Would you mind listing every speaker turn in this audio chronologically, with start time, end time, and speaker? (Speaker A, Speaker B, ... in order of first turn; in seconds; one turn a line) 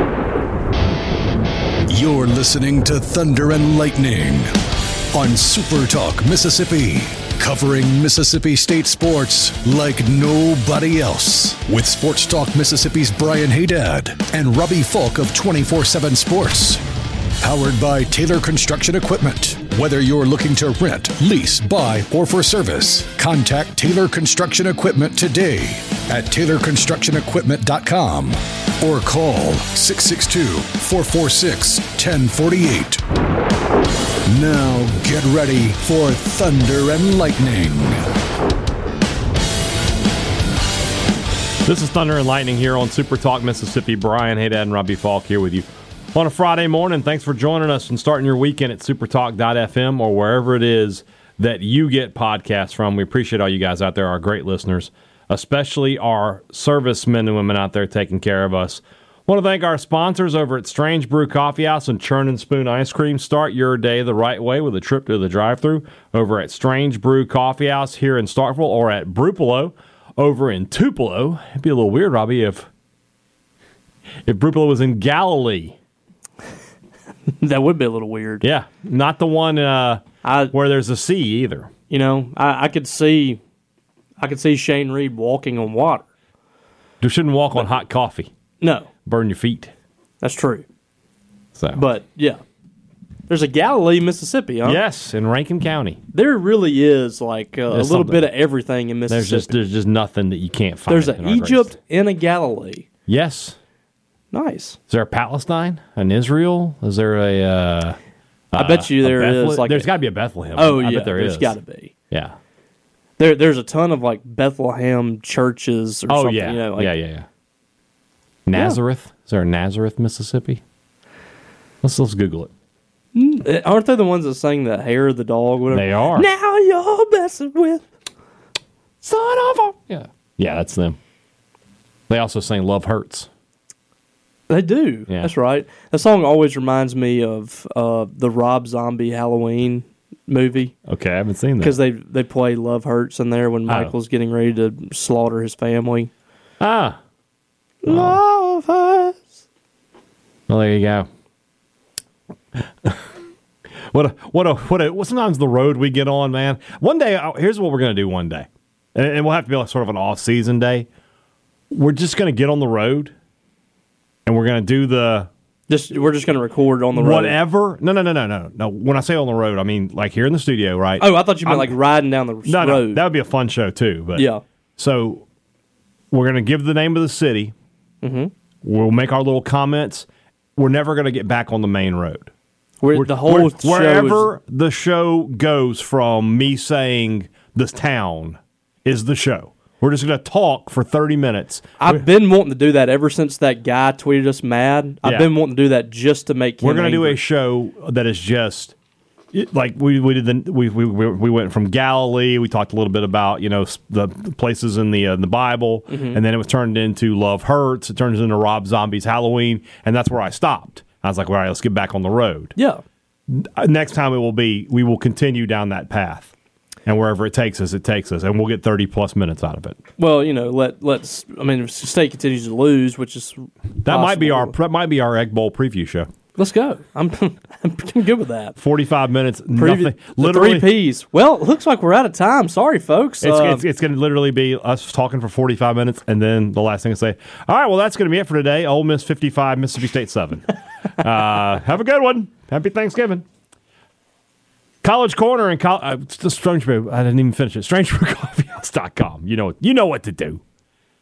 Speaker A: 1.9-4.5
Speaker A: 5.1-16.8
Speaker A: 17.4-33.0
Speaker A: 34.2-38.0
Speaker B: 41.6-72.7
Speaker B: 74.2-75.8
Speaker C: 77.4-78.5
Speaker B: 78.4-81.7
Speaker C: 80.2-80.5
Speaker C: 81.9-83.4
Speaker C: 84.2-86.0
Speaker B: 87.0-88.3
Speaker C: 88.6-88.9
Speaker B: 89.1-89.7
Speaker C: 90.2-90.7
Speaker B: 91.5-91.8
Speaker C: 91.8-92.4
Speaker C: 93.3-94.8
Speaker B: 94.6-96.0
Speaker C: 96.1-99.5
Speaker B: 97.7-98.3
Speaker B: 99.1-101.8
Speaker C: 100.9-102.9
Speaker B: 103.1-103.6
Speaker C: 104.3-104.8
Speaker B: 104.9-108.0
Speaker B: 108.5-111.6
Speaker C: 108.6-109.9
Speaker C: 110.5-111.9
Speaker B: 112.1-112.4
Speaker C: 113.2-116.9
Speaker B: 116.1-117.3
Speaker B: 118.5-120.6
Speaker B: 121.8-122.5
Speaker C: 123.2-127.8
Speaker B: 125.7-126.3
Speaker B: 129.0-131.0
Speaker B: 132.1-133.3
Speaker C: 134.5-140.8
Speaker B: 140.8-141.8
Speaker C: 141.6-146.1
Speaker B: 143.7-143.9
Speaker B: 146.6-147.0
Speaker C: 147.8-148.2
Speaker B: 147.8-149.2
Speaker B: 150.5-151.1
Speaker B: 153.9-160.9
Speaker B: 161.7-163.1
Speaker B: 164.2-165.3
Speaker C: 165.7-167.4
Speaker B: 166.9-171.8
Speaker C: 171.0-173.0
Speaker B: 172.5-175.2
Speaker C: 174.2-174.4
Speaker B: 176.1-177.5
Speaker C: 178.0-178.3
Speaker B: 178.6-182.3
Speaker C: 182.8-184.3
Speaker B: 182.9-192.0
Speaker C: 191.8-197.2
Speaker B: 195.0-195.3
Speaker B: 196.6-198.8
Speaker B: 199.3-212.5
Speaker C: 205.9-206.2
Speaker C: 212.6-212.8
Speaker B: 213.3-216.3
Speaker B: 216.8-219.8
Speaker C: 220.0-224.6
Speaker B: 223.8-226.1
Speaker C: 226.3-228.6
Speaker B: 228.6-230.7
Speaker C: 229.6-233.6
Speaker B: 233.2-243.2
Speaker B: 244.8-250.4